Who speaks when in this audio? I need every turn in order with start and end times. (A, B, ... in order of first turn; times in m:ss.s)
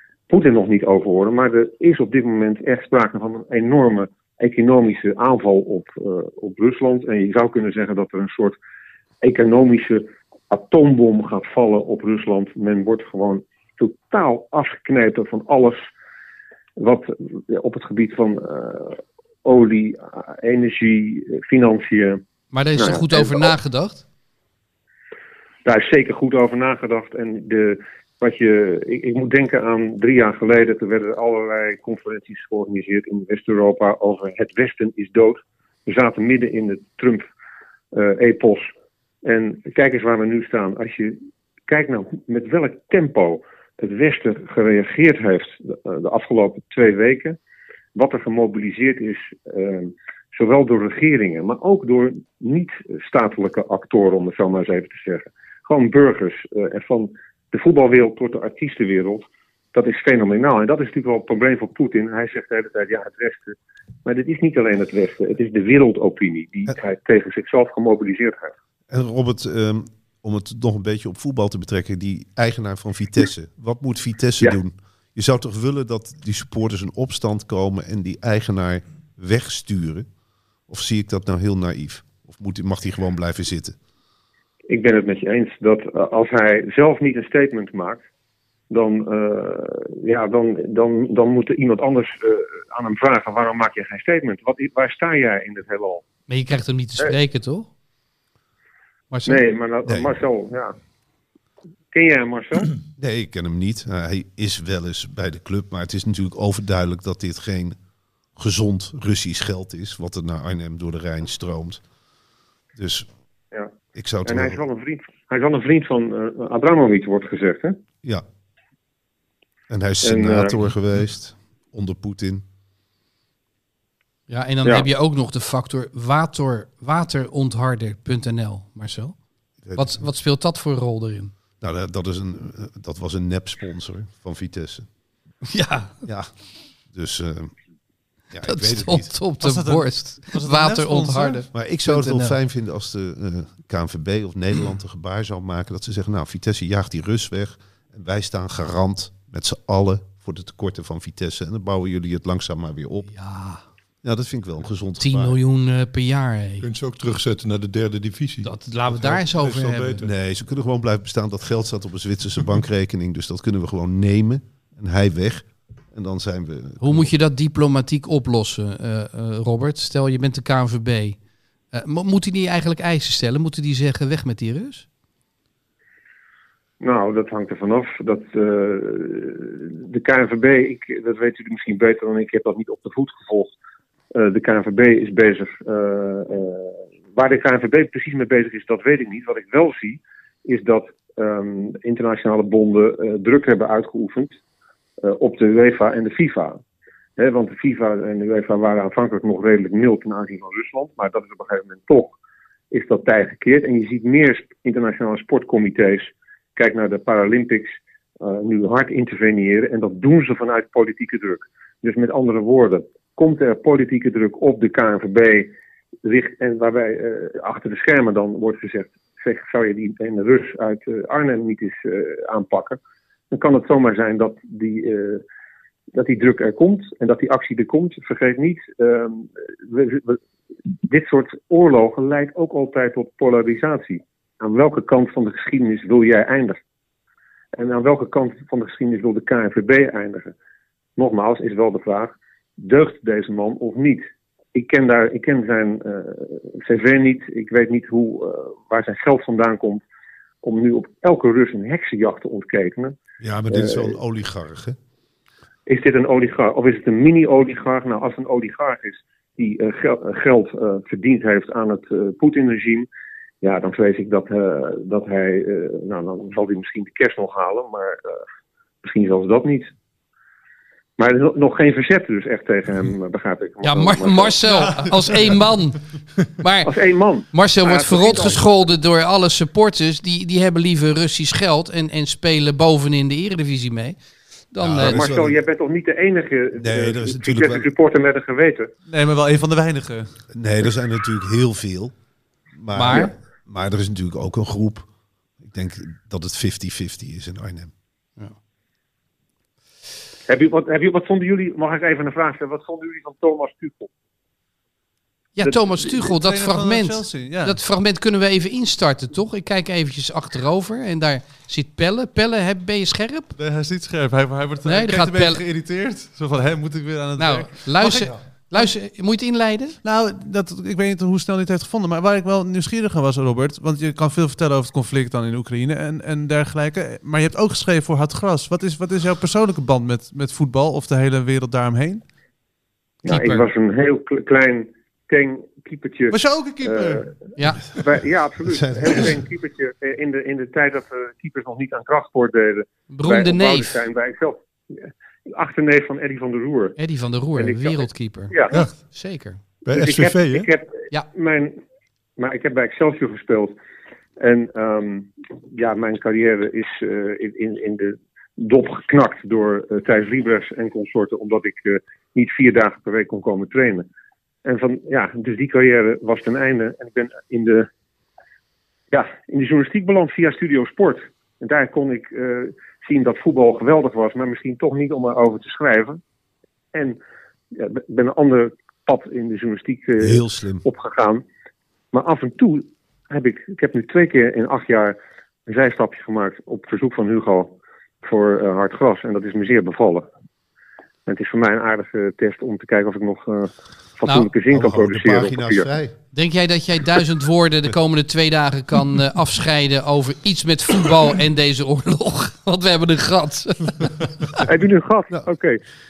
0:00.3-0:08.6 A
0:09.2-0:15.9 A
0:16.8-0:22.2 A
0:22.5-0:24.0 B
0:22.8-0:23.5 A
0:25.6-0:37.2 A
0:37.9-0:38.7 A
0:39.2-0:47.4 A
0:47.9-1:08.5 A
1:08.9-1:20.1 C
1:20.7-1:23.8 C
1:24.7-1:28.0 A
1:28.7-1:36.0 A
1:36.3-1:37.7 B
1:39.1-1:39.4 B
1:39.2-1:40.7 A
1:39.8-1:40.2 C
1:41.9-1:42.7 A
1:43.0-1:47.8 C
1:48.4-1:51.8 C
1:52.8-1:53.1 C
1:53.9-1:54.6 C
1:54.2-1:57.8 A
1:59.7-2:02.4 C
2:00.0-2:00.5 A
2:04.3-2:09.2 B
2:09.6-2:10.0 C
2:09.7-2:11.3 B
2:11.6-2:14.9 C
2:15.5-2:16.0 B
2:16.0-2:16.3 C
2:16.9-2:17.5 C
2:18.3-2:19.1 C
2:18.4-2:22.4 B
2:19.4-2:21.4 D
2:21.5-2:33.1 C
2:33.1-2:33.6 B
2:34.0-2:35.4 C
2:35.0-2:36.6 B
2:36.6-2:40.1 E
2:38.4-2:40.0 B
2:40.0-2:47.1 C
2:46.8-2:51.2 B
2:51.7-2:54.8 B
2:56.8-3:03.5 A
3:04.1-3:14.4 A
3:15.0-3:16.6 A
3:17.2-3:22.2 A
3:22.7-3:35.5 A
3:36.0-3:42.8 A
3:43.3-3:45.2 A
3:45.9-3:50.2 A
3:50.8-3:56.6 A
3:57.5-4:00.3 A
4:01.0-4:04.0 A
4:04.5-4:09.8 A
4:10.4-4:13.0 A
4:13.2-4:14.8 C
4:13.5-4:14.0 A
4:15.7-4:22.9 A
4:23.4-4:28.2 A
4:28.8-4:29.7 A
4:31.0-4:34.4 A
4:33.6-4:35.8 B
4:36.4-4:36.7 B
4:36.6-4:38.4 A
4:37.3-4:44.0 B
4:44.5-4:45.0 B
4:44.6-4:45.4 C
4:44.8-4:48.7 A
4:46.6-4:47.7 C
4:48.9-4:50.1 D
4:50.3-4:51.9 C
4:52.5-4:54.9 C
4:52.7-4:53.1 B
4:55.4-4:57.7 C
5:00.3-5:03.9 A
5:05.4-5:13.3 B
5:06.0-5:07.6 D
5:13.4-5:18.1 D
5:14.6-5:15.4 B
5:17.2-5:19.8 B
5:19.8-5:32.0 D
5:33.0-5:37.1 A
5:33.1-5:33.4 B
5:36.1-5:37.0 D
5:37.4-5:37.6 B
5:37.7-5:46.8 A
5:38.4-5:39.2 C
5:42.9-5:43.8 B
5:46.8-5:49.4 B
5:47.3-5:48.6 A
5:49.6-5:50.5 E
5:49.7-5:51.6 A
5:52.2-5:53.5 A
5:54.2-6:03.9 A
6:04.4-6:07.7 A
6:08.9-6:16.0 A
6:17.5-6:21.2 A
6:20.0-6:20.6 C
6:21.9-6:30.0 A
6:31.0-6:35.7 A
6:34.5-6:35.9 C
6:36.1-6:44.4 B
6:44.4-6:45.6 A